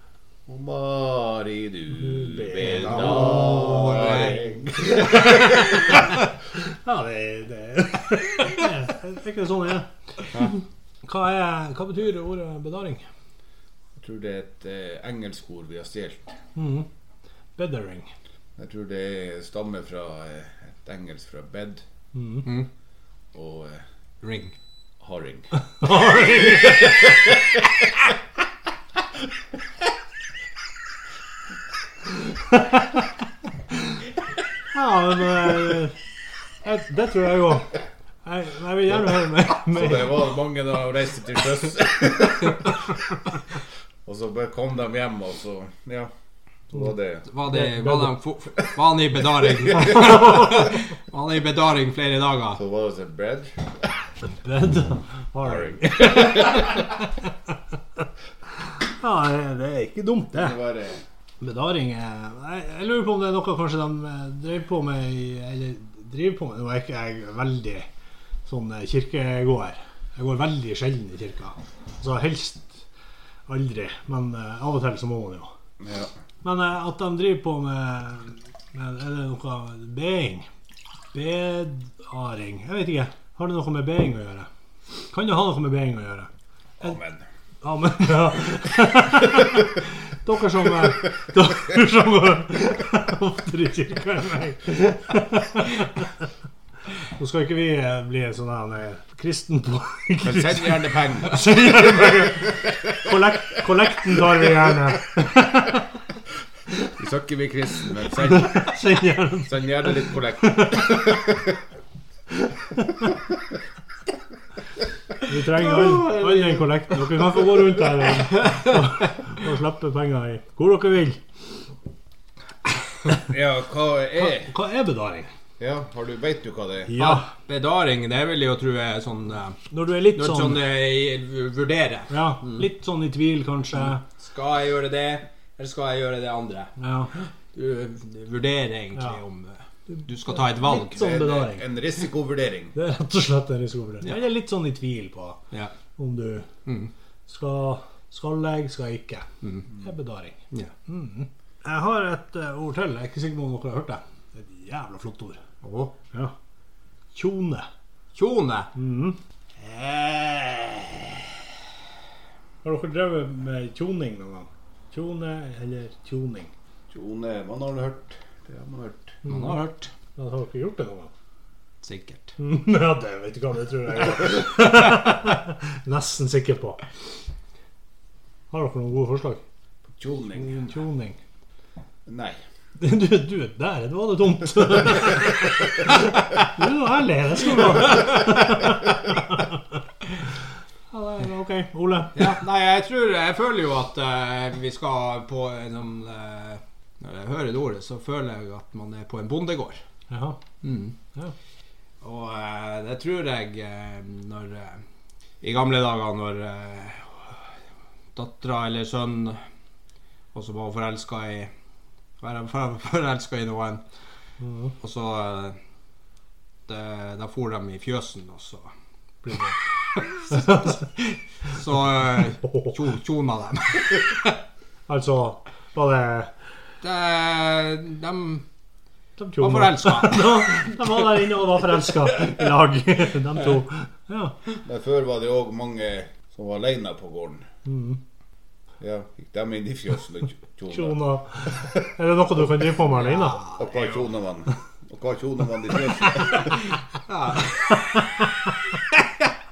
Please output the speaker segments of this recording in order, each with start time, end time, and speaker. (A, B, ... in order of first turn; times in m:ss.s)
0:00.5-0:05.8 A
0:02.0-0:13.0 B
0:02.6-0:04.4 C
0:14.0-0:16.3 A
0:16.5-0:16.9 B
0:17.6-0:18.1 B
0:18.6-0:21.8 A
0:22.1-0:22.5 B
0:23.3-0:23.8 A
0:24.2-0:24.5 C
0:25.0-0:27.6 A
0:25.8-0:27.1 B
0:32.5-0:32.8 B
0:34.7-0:36.0 B
0:36.6-0:40.3 B
0:39.6-0:42.8 A
0:44.0-0:46.1 A
0:46.7-0:47.3 A
0:47.3-0:52.6 C
0:47.4-0:48.2 B
0:49.6-0:50.0 A
0:52.5-0:53.7 A
0:54.2-0:57.3 B
0:55.4-0:56.8 A
0:58.8-1:00.6 B
1:00.3-1:01.0 A
1:01.4-1:07.9 B
1:08.4-1:12.8 B
1:13.5-1:15.5 B
1:15.8-1:16.1 A
1:16.4-1:20.5 B
1:21.1-1:24.5 B
1:25.1-1:26.3 B
1:26.8-1:27.2 A
1:27.6-1:36.1 B
1:37.2-1:45.8 B
1:40.2-1:42.9 A
1:47.0-1:48.8 A
1:48.2-1:49.9 B
1:49.4-1:51.6 A
1:50.4-1:51.4 B
1:52.7-1:53.1 B
1:55.2-2:01.2 B
1:55.6-1:56.8 C
2:03.3-2:04.5 A
2:04.2-2:05.3 B
2:05.6-2:06.9 A
2:06.9-2:07.3 B
2:07.0-2:12.6 C
2:09.7-2:10.6 B
2:12.1-2:14.0 B
2:13.8-2:16.7 C
2:16.8-2:17.1 B
2:17.5-2:21.0 C
2:19.9-2:21.6 B
2:20.7-2:22.8 A
2:22.7-2:25.4 B
2:26.0-2:26.5 B
2:26.6-2:26.9 C
2:27.3-2:29.3 B
2:29.4-2:29.7 C
2:29.8-2:35.4 B
2:35.6-2:35.9 C
2:37.1-2:37.7 B
2:38.1-2:38.7 C
2:38.7-2:40.9 B
2:42.6-2:46.5 B
2:46.9-2:49.2 A
2:49.2-2:51.1 B
2:49.3-2:49.9 C
2:51.8-2:52.3 C
2:52.4-2:56.8 B
2:58.5-2:59.4 B
2:59.9-3:00.7 A
3:00.4-3:01.2 B
3:02.0-3:02.4 A
3:02.8-3:09.8 B
3:10.9-3:12.4 B
3:12.1-3:19.8 C
3:20.1-3:20.4 B
3:20.6-3:21.0 C
3:22.0-3:24.8 C
3:25.4-3:27.3 C
3:28.1-3:29.4 C
3:30.3-3:31.5 C
3:32.2-3:33.8 C
3:34.4-3:34.7 B
3:34.8-3:35.6 C
3:36.7-3:38.7 C
3:39.2-3:39.5 B
3:40.0-3:44.4 C
3:40.3-3:40.7 B
3:42.4-3:42.7 B
3:44.9-3:46.3 B
3:46.8-3:48.4 C
3:49.2-3:54.3 B
3:49.4-3:50.6 C
3:54.6-3:57.4 A
3:57.6-3:58.0 B
3:58.8-4:01.0 A
4:00.7-4:03.4 B
4:03.1-4:03.8 C
4:03.6-4:06.6 A
4:07.1-4:08.0 C